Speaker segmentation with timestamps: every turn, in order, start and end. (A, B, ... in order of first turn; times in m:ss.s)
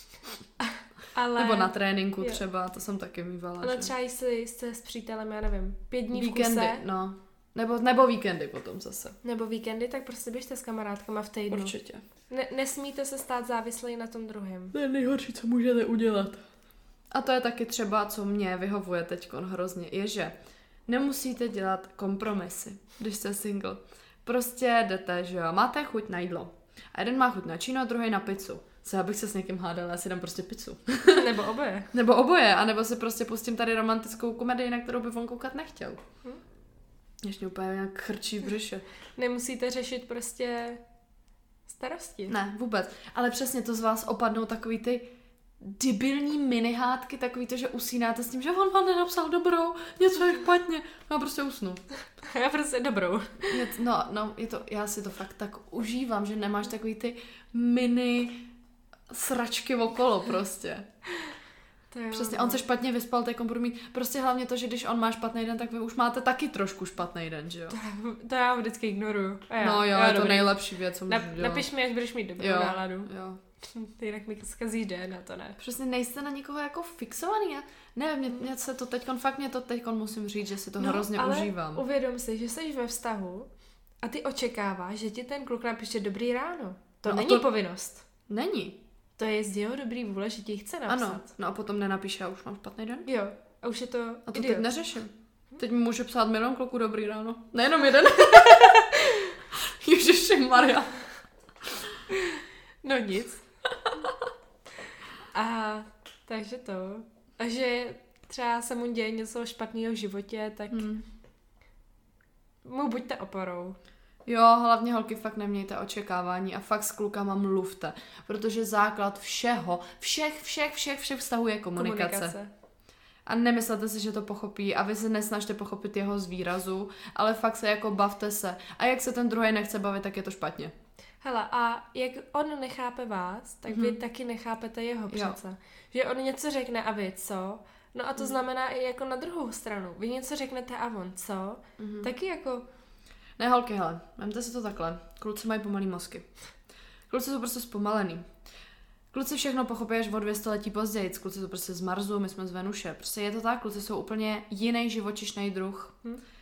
0:00.6-0:02.4 A
0:01.3-0:03.9 B
0:03.6-0:06.8 A
0:06.1-0:09.2 B
0:09.2-0:11.7 A
0:11.5-0:12.0 B
0:12.3-0:14.7 A
0:14.7-0:16.5 B
0:17.1-0:20.3 B
0:20.9-0:31.3 B
0:31.1-0:31.9 A
0:31.9-0:36.0 B
0:37.2-0:38.8 B
0:39.2-0:40.8 A
0:41.7-0:42.3 A
0:42.3-0:45.1 B
0:45.6-0:51.8 B
0:52.2-0:53.7 A
0:53.5-0:58.5 B
0:59.1-1:00.9 B
1:01.9-1:02.6 A
1:02.1-1:07.8 B
1:07.7-1:13.1 A
1:09.6-1:11.7 B
1:12.4-1:13.4 B
1:13.6-1:15.6 A
1:15.6-1:21.8 B
1:20.8-1:23.5 A
1:24.0-1:28.0 A
1:27.1-1:27.5 B
1:28.3-1:28.8 B
1:29.2-1:31.3 A
1:30.9-1:33.1 B
1:33.1-1:34.7 A
1:34.3-1:41.0 B
1:42.1-1:43.4 A
1:45.3-1:50.9 A
1:50.7-1:51.0 B
1:52.6-1:53.8 A
1:54.3-2:02.4 B
2:01.8-2:02.5 A
2:03.3-2:10.7 B
2:11.2-2:22.6 A
2:13.7-2:14.0 B
2:15.1-2:15.4 B
2:21.8-2:22.1 B
2:23.4-2:26.3 B
2:27.1-2:28.3 B
2:29.1-2:36.0 B